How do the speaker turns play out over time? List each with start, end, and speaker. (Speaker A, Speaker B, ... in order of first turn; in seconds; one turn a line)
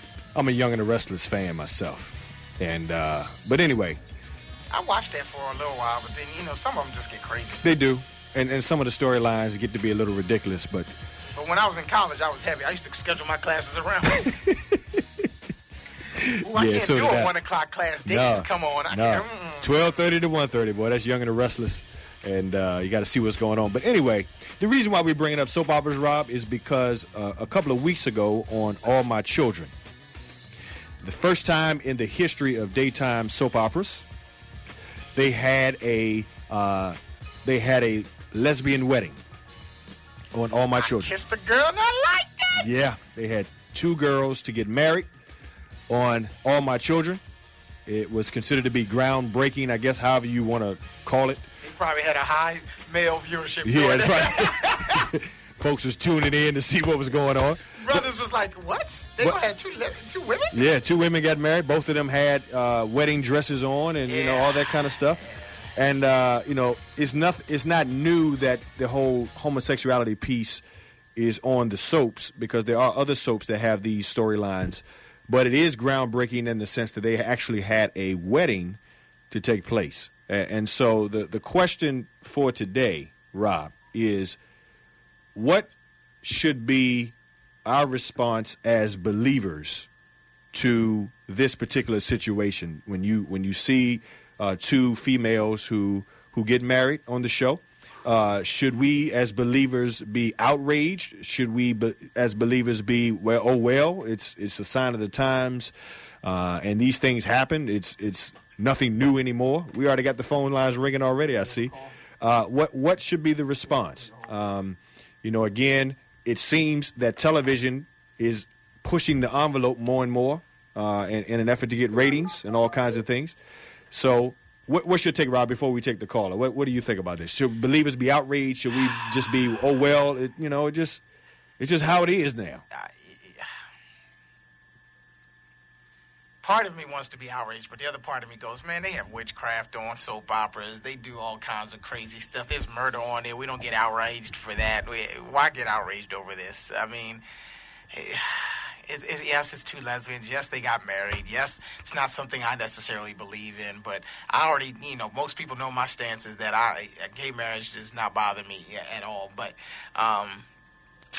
Speaker A: 0.3-4.0
Speaker B: 4.7-7.6
Speaker A: 7.6-10.9
Speaker B: 11.3-14.4
Speaker A: 14.1-15.3
Speaker A: 16.1-17.3
Speaker B: 16.4-19.9
Speaker A: 18.0-29.7
Speaker A: 31.0-34.0
Speaker A: 35.1-39.2
Speaker A: 40.3-41.1
Speaker B: 40.8-42.6
Speaker A: 42.5-45.1
Speaker A: 45.9-47.2
Speaker A: 47.9-51.4
Speaker B: 51.6-55.1
Speaker A: 53.6-58.1
Speaker B: 57.8-60.6
Speaker A: 60.5-65.2
Speaker B: 64.1-64.8
Speaker A: 65.7-70.6
Speaker A: 71.1-78.8
Speaker A: 79.3-84.4
Speaker A: 85.3-85.7
Speaker A: 86.2-87.1
Speaker A: 87.6-89.9
Speaker A: 90.5-105.7
Speaker A: 106.2-123.3
Speaker A: 123.9-131.0
Speaker A: 131.6-132.6
Speaker B: 132.7-133.5
Speaker B: 136.4-147.2
Speaker B: 147.9-160.4